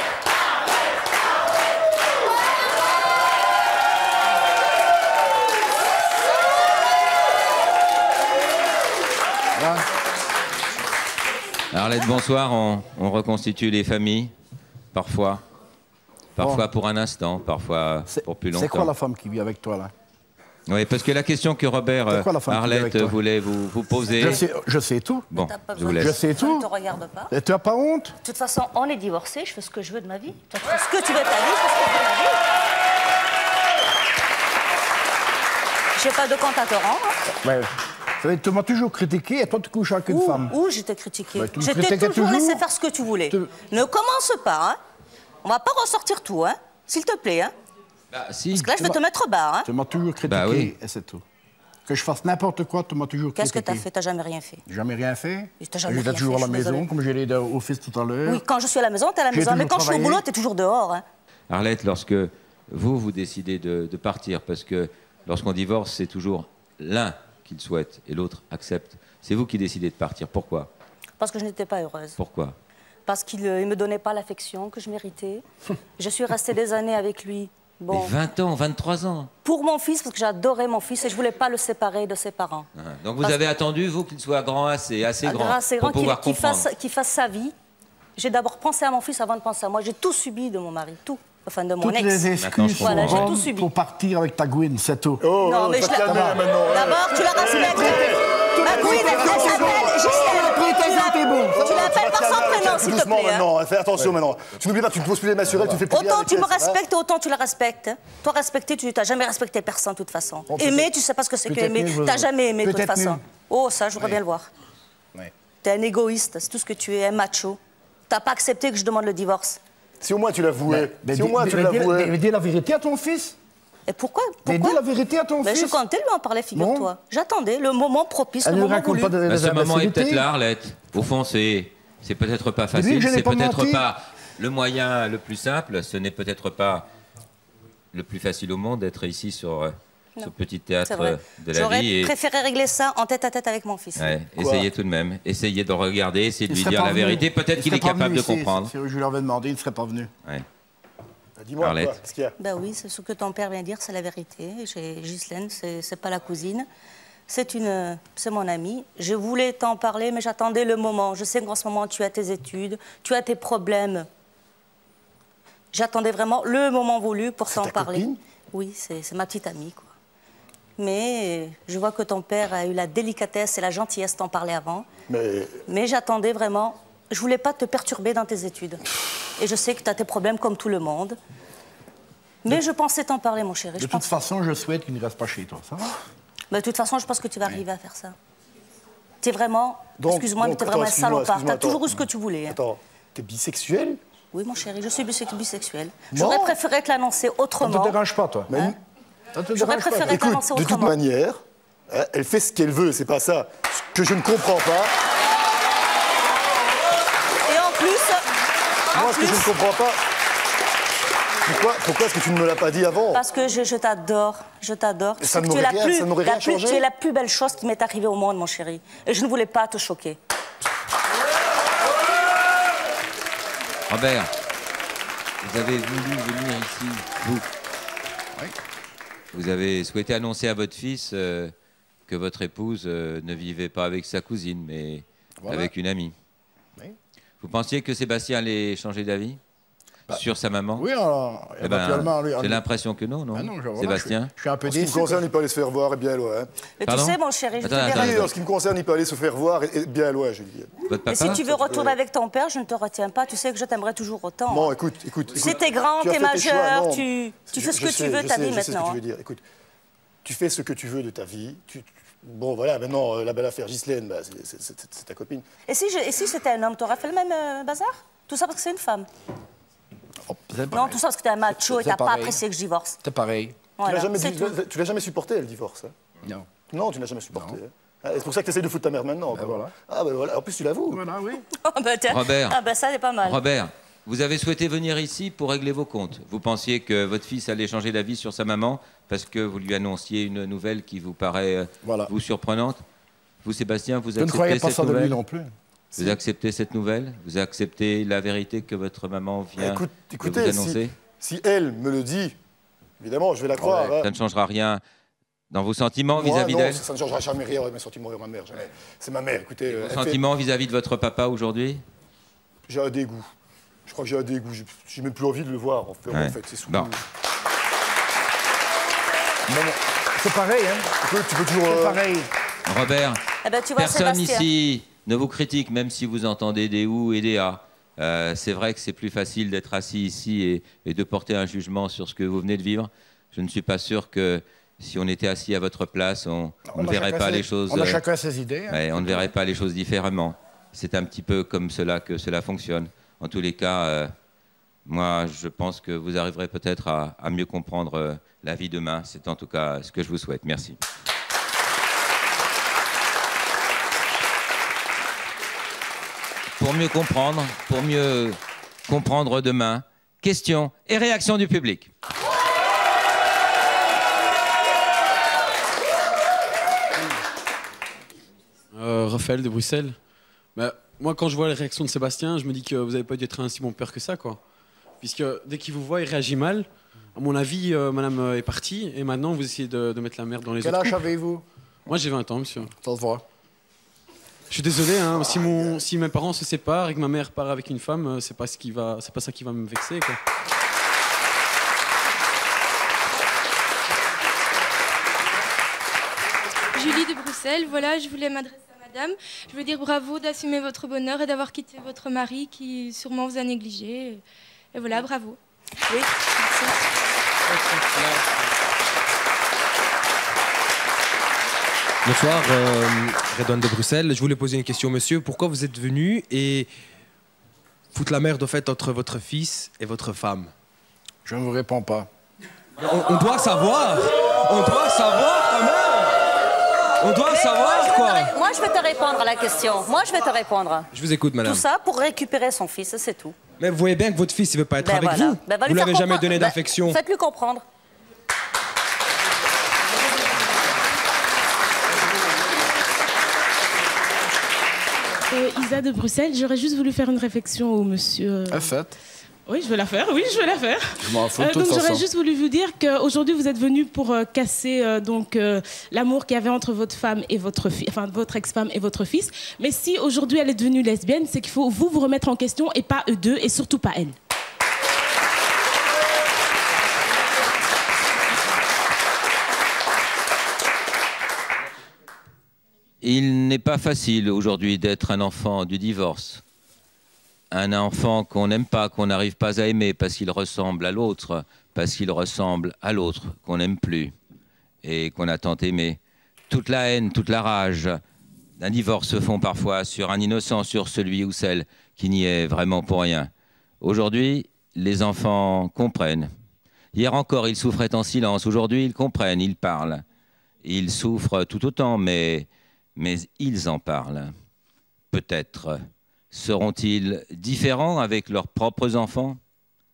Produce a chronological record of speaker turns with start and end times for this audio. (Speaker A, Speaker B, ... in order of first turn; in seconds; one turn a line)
Speaker A: 9.5-9.8
Speaker B: 11.7-14.3
Speaker B: 14.9-15.4
Speaker B: 16.4-18.9
Speaker A: 16.4-16.7
Speaker A: 18.1-19.9
Speaker B: 20.7-24.4
Speaker A: 22.1-23.2
Speaker A: 24.1-25.3
Speaker B: 25.3-26.2
Speaker C: 25.3-27.3
Speaker A: 26.0-26.7
Speaker A: 27.3-28.1
Speaker C: 28.2-32.4
Speaker C: 36.0-37.2
Speaker A: 37.4-40.5
Speaker C: 40.1-44.8
Speaker A: 41.3-42.6
Speaker C: 45.4-47.5
Speaker B: 48.1-48.7
Speaker C: 48.5-49.7
Speaker A: 49.6-51.2
Speaker B: 50.3-50.7
Speaker A: 51.9-53.9
Speaker C: 53.4-54.6
Speaker A: 54.6-58.4
Speaker C: 55.6-56.9
Speaker C: 58.2-61.0
Speaker A: 59.3-60.2
Speaker B: 61.5-70.7
Speaker C: 71.2-72.2
Speaker B: 72.2-72.5
Speaker C: 73.0-75.4
Speaker C: 76.0-78.1
Speaker B: 77.9-79.3
Speaker C: 79.4-82.7
Speaker B: 82.8-86.7
Speaker C: 85.2-87.5
Speaker C: 88.2-93.7
Speaker A: 91.8-95.2
Speaker B: 92.4-93.3
Speaker D: 95.2-100.5
Speaker C: 95.4-103.5
Speaker A: 96.0-96.4
Speaker A: 97.9-101.9
Speaker D: 101.5-106.8
Speaker C: 105.9-114.5
Speaker A: 110.5-110.9
Speaker A: 111.4-113.2
Speaker C: 115.6-119.6
Speaker D: 120.0-122.1
Speaker A: 120.7-123.3
Speaker C: 123.9-124.8
Speaker A: 124.4-125.8
Speaker C: 125.4-129.1
Speaker A: 126.5-126.9
Speaker A: 128.4-130.3
Speaker B: 129.2-136.9
Speaker A: 132.7-133.9
Speaker B: 137.9-142.1
Speaker C: 140.9-144.2
Speaker B: 144.0-148.7
Speaker D: 144.4-144.7
Speaker A: 146.5-150.1
Speaker D: 151.4-152.3
Speaker B: 151.6-152.0
Speaker C: 152.4-156.7
Speaker C: 157.3-164.1
Speaker C: 165.7-169.9
Speaker D: 167.5-168.2
Speaker C: 170.8-174.9
Speaker D: 175.1-175.6
Speaker C: 175.7-178.8
Speaker C: 179.4-181.2
Speaker C: 182.4-184.1
Speaker A: 183.8-186.0
Speaker C: 186.5-188.1
Speaker C: 189.2-192.6
Speaker D: 190.0-194.0
Speaker C: 194.3-198.0
Speaker D: 196.1-196.5
Speaker A: 197.6-198.5
Speaker D: 198.5-198.8
Speaker A: 199.3-200.2
Speaker C: 199.5-200.9
Speaker D: 200.1-204.9
Speaker C: 207.4-208.2
Speaker C: 208.9-209.5
Speaker D: 208.9-210.0
Speaker D: 211.4-213.2
Speaker C: 213.1-220.2
Speaker D: 215.2-216.8
Speaker B: 223.9-224.3
Speaker B: 225.4-227.5
Speaker B: 229.3-231.5
Speaker B: 232.1-236.1
Speaker A: 235.4-235.7
Speaker B: 237.4-239.4
Speaker B: 240.1-240.8
Speaker A: 240.8-242.6
Speaker B: 241.6-244.3
Speaker A: 243.3-245.3
Speaker D: 244.7-246.5
Speaker C: 246.8-248.3
Speaker B: 246.9-248.3
Speaker D: 247.9-251.9
Speaker B: 250.8-251.4
Speaker C: 251.1-254.7
Speaker D: 254.5-259.4
Speaker C: 255.3-259.0
Speaker D: 260.2-265.4
Speaker C: 265.6-269.1
Speaker A: 270.2-271.0
Speaker C: 270.7-273.0
Speaker A: 271.5-272.4
Speaker A: 273.0-273.6
Speaker C: 273.8-274.5
Speaker D: 273.8-275.9
Speaker D: 276.7-281.0
Speaker A: 277.3-277.6
Speaker A: 279.3-279.7
Speaker A: 280.9-281.4
Speaker C: 281.7-283.4
Speaker B: 282.1-282.6
Speaker B: 283.2-292.8
Speaker A: 291.8-292.1
Speaker B: 293.4-295.2
Speaker A: 294.2-295.5
Speaker B: 295.9-300.9
Speaker D: 299.6-302.3
Speaker D: 303.0-304.1
Speaker B: 303.6-304.8
Speaker B: 305.5-306.8
Speaker D: 306.1-310.2
Speaker B: 309.6-311.8
Speaker D: 312.7-313.3
Speaker D: 313.9-317.0
Speaker B: 316.1-317.0
Speaker A: 319.5-320.9
Speaker D: 321.0-322.0
Speaker A: 321.6-322.3
Speaker B: 322.6-323.2
Speaker C: 323.4-324.4
Speaker B: 323.8-338.0
Speaker A: 336.7-339.3
Speaker B: 338.7-344.1
Speaker B: 344.9-350.8
Speaker B: 356.6-361.9
Speaker E: 368.7-370.0
Speaker E: 370.5-374.4
Speaker E: 375.0-381.0
Speaker A: 380.6-381.4
Speaker E: 381.9-382.7
Speaker A: 382.7-383.2
Speaker E: 384.5-390.2
Speaker F: 396.8-404.2
Speaker F: 404.7-405.4
Speaker F: 405.9-406.8
Speaker G: 412.1-416.6
Speaker G: 417.9-420.4
Speaker A: 421.2-422.1
Speaker G: 422.9-426.1
Speaker C: 427.0-430.9
Speaker G: 427.1-428.3
Speaker G: 430.9-431.6
Speaker C: 431.4-433.4
Speaker G: 433.6-436.9
Speaker C: 434.8-437.6
Speaker H: 445.3-448.7
Speaker A: 448.5-448.9
Speaker H: 449.5-464.1
Speaker A: 451.0-452.1
Speaker B: 473.0-476.4
Speaker B: 477.5-484.1
Speaker B: 484.8-488.0
Speaker B: 488.6-493.3
Speaker B: 493.8-496.3
Speaker B: 496.9-500.0
Speaker B: 500.6-504.3
Speaker B: 505.1-505.8
Speaker B: 506.3-509.4